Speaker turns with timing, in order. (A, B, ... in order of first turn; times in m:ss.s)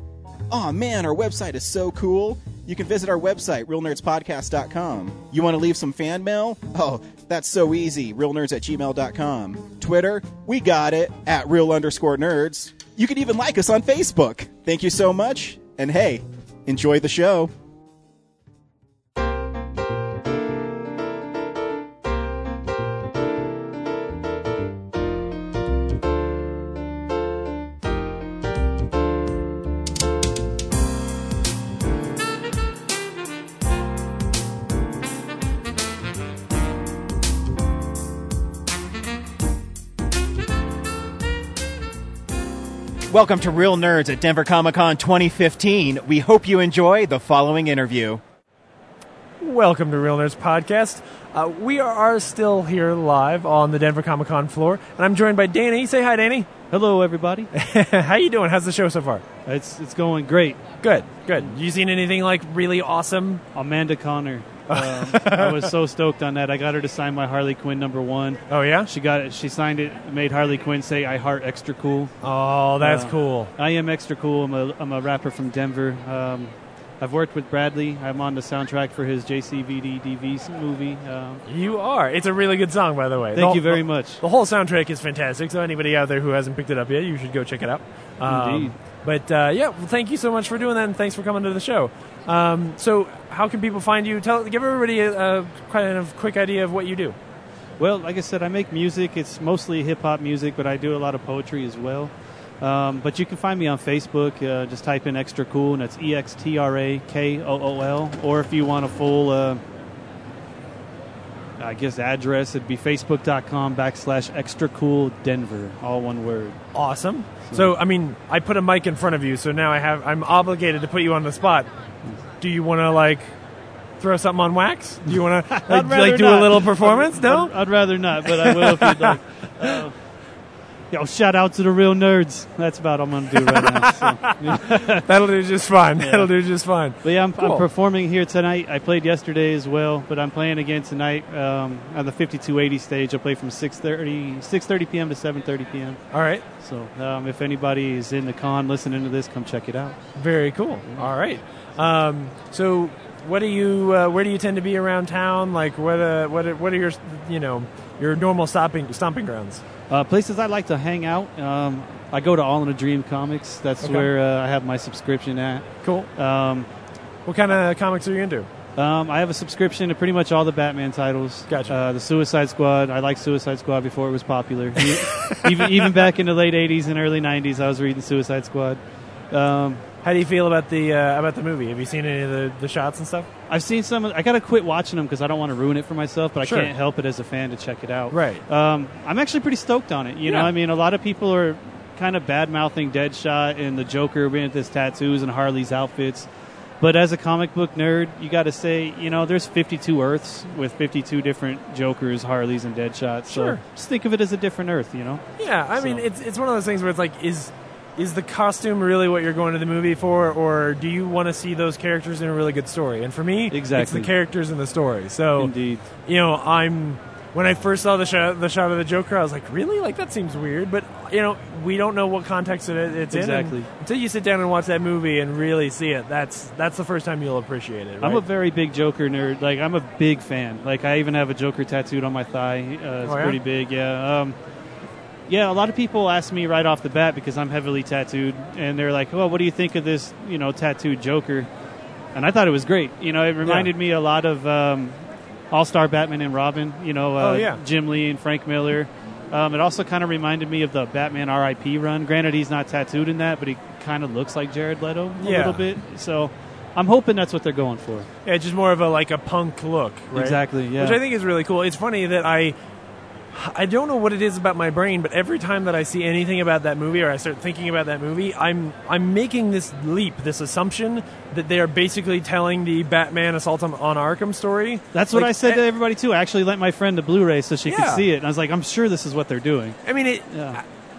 0:00.5-0:17.5 A
0:43.1-0:48.2 B
0:49.4-0:56.5 C
0:56.7-0:57.5 D
0:57.5-0:59.2 C
0:59.4-1:00.6 D
1:00.8-1:03.4 C
1:03.5-1:12.1 D
1:04.7-1:05.7 C
1:08.5-1:08.9 C
1:12.2-1:13.5 C
1:12.8-1:21.4 D
1:21.5-1:37.2 C
1:23.3-1:24.2 D
1:28.2-1:28.7 D
1:37.8-1:49.6 D
1:51.6-1:56.6 D
1:56.7-2:01.7 C
2:02.4-2:03.3 C
2:04.0-2:07.5 C
2:05.5-2:10.0 D
2:08.2-2:09.8 C
2:10.9-2:15.0 D
2:13.4-2:17.6 C
2:16.0-2:16.3 D
2:17.0-2:26.0 D
2:26.1-2:26.4 C
2:26.6-2:30.0 D
2:30.1-2:39.6 C
2:39.9-2:46.7 D
2:43.8-2:44.1 C
2:45.8-2:46.1 C
2:47.2-2:48.5 C
2:48.8-2:58.8 D
2:51.5-2:51.7 C
2:54.8-2:55.9 C
2:59.3-2:59.8 D
3:00.0-3:03.3 C
3:03.5-3:16.3 D
3:06.4-3:06.7 C
3:08.1-3:08.4 C
3:10.2-3:10.5 C
3:16.8-3:26.0 D
3:23.3-3:23.6 C
3:25.4-3:35.5 C
3:33.5-3:34.1 D
3:35.4-3:35.9 D
3:36.0-3:48.2 C
3:43.1-3:43.7 D
3:48.0-3:54.4 D
3:53.0-3:53.4 C
3:55.3-4:01.5 D
4:02.1-4:05.0 D
4:03.4-4:03.7 C
4:05.5-4:18.1 D
4:07.2-4:07.6 C
4:15.2-4:15.6 C
4:18.2-4:22.5 C
4:20.1-4:21.0 D
4:23.3-4:35.6 C
4:34.9-4:40.6 D
4:37.7-4:38.0 C
4:39.8-4:40.6 C